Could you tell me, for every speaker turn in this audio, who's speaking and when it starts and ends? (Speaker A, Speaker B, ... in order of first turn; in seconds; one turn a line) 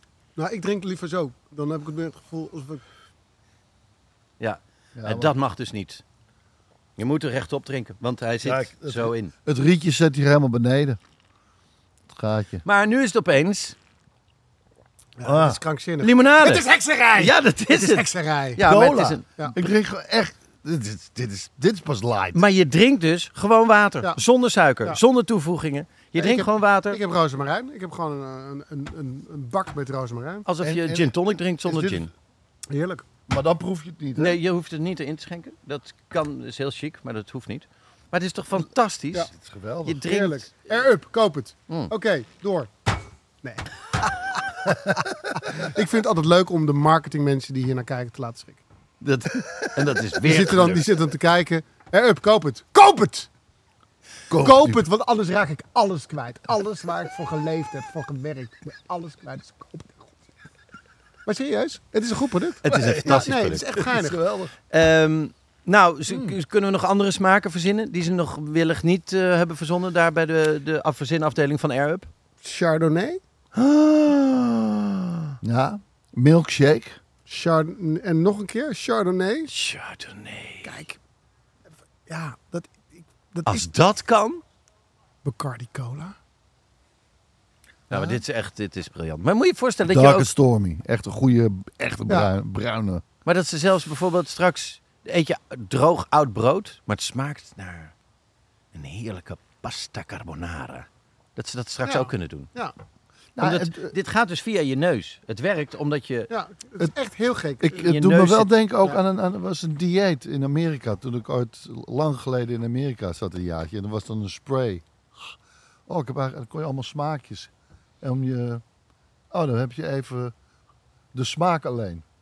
Speaker A: 0.3-2.8
Speaker B: 4.4-6.0
Speaker C: 5.0-5.3
Speaker B: 7.0-9.3
Speaker C: 8.4-11.0
Speaker C: 12.1-12.6
Speaker B: 12.6-13.8
Speaker A: 15.2-18.6
Speaker C: 15.2-15.6
Speaker B: 16.0-19.4
Speaker C: 18.6-22.4
Speaker B: 22.3-27.0
Speaker A: 26.1-30.4
Speaker B: 30.4-32.1
Speaker C: 30.6-31.1
Speaker C: 31.6-32.0
Speaker A: 32.7-33.0
Speaker C: 33.3-34.4
Speaker B: 34.2-39.3
Speaker C: 39.3-40.0
Speaker B: 39.8-40.5
Speaker A: 40.0-42.9
Speaker A: 43.4-44.8
Speaker A: 45.3-48.6
Speaker B: 49.0-50.9
Speaker A: 50.2-53.3
Speaker C: 54.3-54.8
Speaker A: 54.4-60.1
Speaker A: 61.2-64.2
Speaker B: 62.6-63.8
Speaker C: 62.7-64.5
Speaker B: 64.7-72.1
Speaker A: 72.4-73.2
Speaker B: 73.5-75.3
Speaker C: 75.4-77.0
Speaker A: 77.3-79.5
Speaker B: 79.5-80.7
Speaker A: 80.6-81.0
Speaker A: 82.1-83.7
Speaker B: 83.5-84.4
Speaker A: 85.2-86.1
Speaker B: 87.9-90.3
Speaker C: 87.9-88.2
Speaker C: 89.9-93.0
Speaker B: 93.2-97.9
Speaker B: 98.7-102.5
Speaker A: 101.8-102.7
Speaker C: 103.3-103.9
Speaker B: 103.4-106.3
Speaker A: 106.3-107.9
Speaker C: 107.6-115.3
Speaker B: 107.8-108.5
Speaker C: 115.9-118.6
Speaker C: 119.3-120.3
Speaker C: 121.1-122.0